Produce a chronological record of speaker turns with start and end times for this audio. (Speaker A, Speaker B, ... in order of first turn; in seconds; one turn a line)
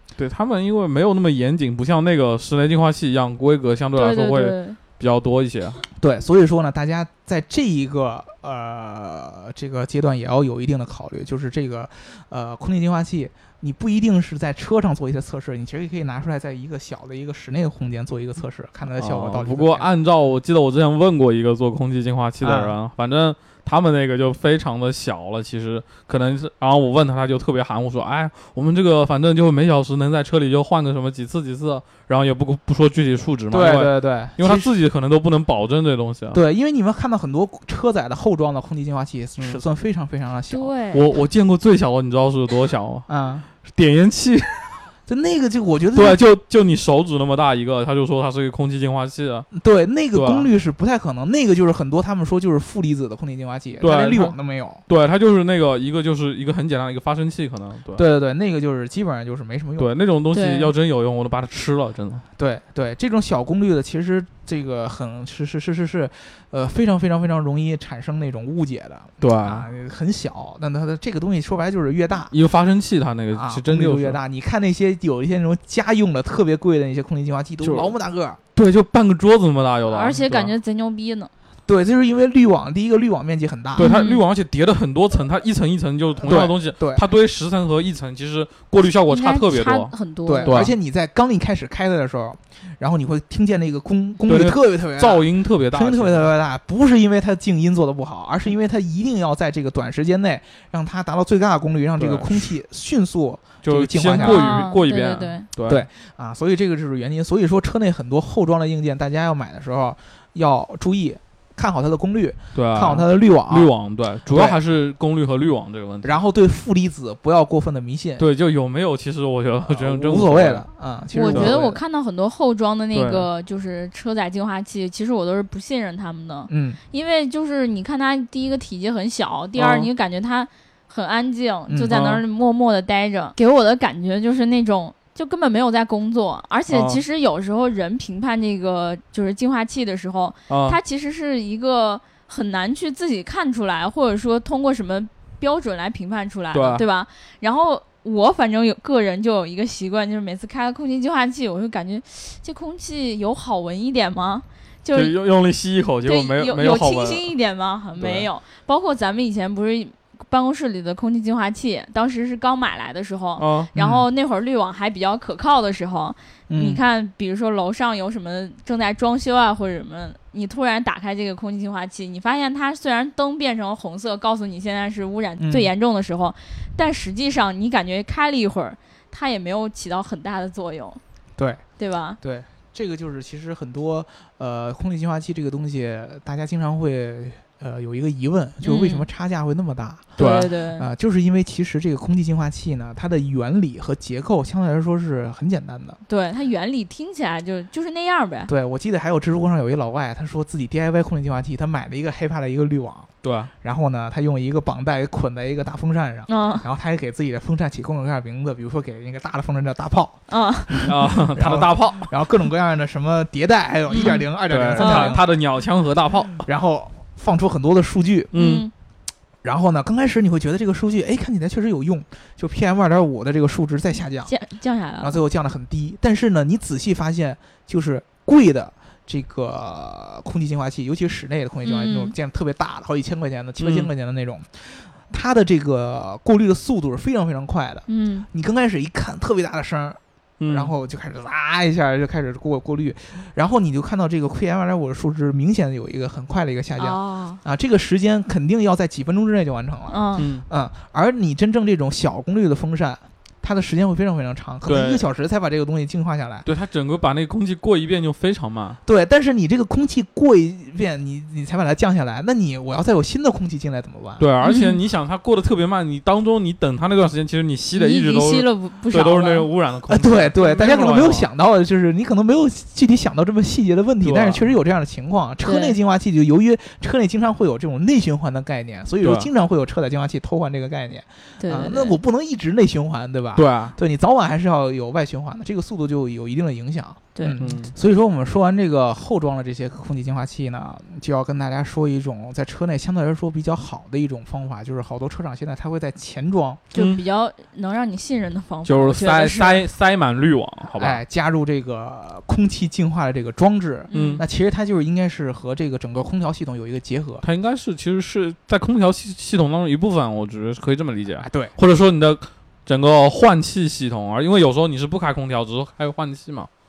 Speaker A: 0.2-5.8
Speaker B: 4.0-4.8
Speaker C: 6.0-19.9
Speaker A: 19.0-36.4
Speaker C: 22.4-22.7
Speaker C: 33.5-34.7
Speaker C: 36.3-40.7
Speaker B: 40.5-41.0
Speaker A: 40.9-43.1
Speaker C: 43.1-43.5
Speaker A: 43.7-44.8
Speaker C: 45.1-46.2
Speaker A: 45.9-49.5
Speaker C: 49.5-54.8
Speaker A: 50.1-50.5
Speaker A: 53.8-54.4
Speaker A: 54.9-58.0
Speaker C: 57.9-59.9
Speaker A: 59.8-62.2
Speaker B: 60.3-60.7
Speaker C: 62.4-72.3
Speaker A: 69.2-69.7
Speaker A: 72.3-74.2
Speaker C: 73.3-78.4
Speaker A: 77.6-77.9
Speaker A: 78.5-80.5
Speaker B: 79.9-81.3
Speaker C: 81.7-83.9
Speaker A: 83.8-89.9
Speaker B: 83.8-84.2
Speaker C: 86.2-87.0
Speaker B: 89.1-90.5
Speaker C: 90.2-104.6
Speaker A: 90.4-90.7
Speaker A: 94.2-96.2
Speaker A: 102.0-102.5
Speaker A: 103.6-105.9
Speaker B: 104.1-105.5
Speaker C: 105.7-113.7
Speaker A: 112.5-116.1
Speaker C: 114.3-114.6
Speaker C: 116.0-118.3
Speaker A: 118.2-120.7
Speaker C: 119.7-121.8
Speaker B: 121.1-155.1
Speaker A: 121.3-121.6
Speaker A: 122.9-123.3
Speaker C: 126.5-126.8
Speaker A: 129.6-129.9
Speaker C: 131.7-132.0
Speaker A: 131.9-132.2
Speaker A: 136.7-137.0
Speaker A: 140.5-140.8
Speaker A: 146.5-146.8
Speaker A: 154.9-157.3
Speaker B: 156.0-181.0
Speaker A: 158.0-158.2
Speaker A: 163.4-163.7
Speaker C: 163.8-164.1
Speaker C: 166.5-166.8
Speaker C: 175.4-175.7
Speaker C: 181.4-181.6
Speaker B: 181.8-182.2
Speaker C: 182.2-196.0
Speaker B: 188.6-189.1
Speaker A: 190.2-190.4
Speaker B: 190.2-190.9
Speaker B: 196.1-198.5
Speaker C: 198.5-203.1
Speaker A: 203.2-203.5
Speaker C: 203.6-215.2
Speaker B: 206.3-206.6
Speaker B: 210.3-210.9
Speaker A: 210.8-212.1
Speaker B: 213.9-214.2
Speaker A: 214.5-216.5
Speaker B: 214.8-215.2
Speaker C: 216.4-218.3
Speaker A: 218.3-218.7
Speaker B: 218.3-218.7
Speaker C: 219.4-224.3
Speaker B: 224.3-225.2
Speaker C: 225.0-256.5
Speaker B: 231.6-232.1
Speaker A: 233.6-233.9
Speaker B: 237.9-238.2
Speaker A: 240.4-240.7
Speaker B: 246.8-247.4
Speaker B: 249.9-250.2
Speaker A: 250.2-250.4
Speaker A: 254.6-255.0
Speaker A: 256.4-258.8
Speaker C: 258.8-264.3
Speaker A: 264.2-271.2
Speaker B: 264.4-264.8
Speaker B: 267.7-269.5
Speaker C: 269.9-296.6
Speaker B: 270.4-270.7
Speaker A: 274.0-274.5
Speaker B: 275.4-275.8
Speaker A: 279.0-279.3
Speaker B: 281.4-282.0
Speaker A: 283.4-283.8
Speaker A: 287.4-287.7
Speaker B: 296.7-299.6
Speaker A: 296.7-297.0
Speaker A: 298.6-301.0
Speaker C: 300.8-307.2
Speaker B: 303.9-304.2
Speaker A: 303.9-304.2
Speaker A: 307.2-316.5
Speaker C: 311.2-311.5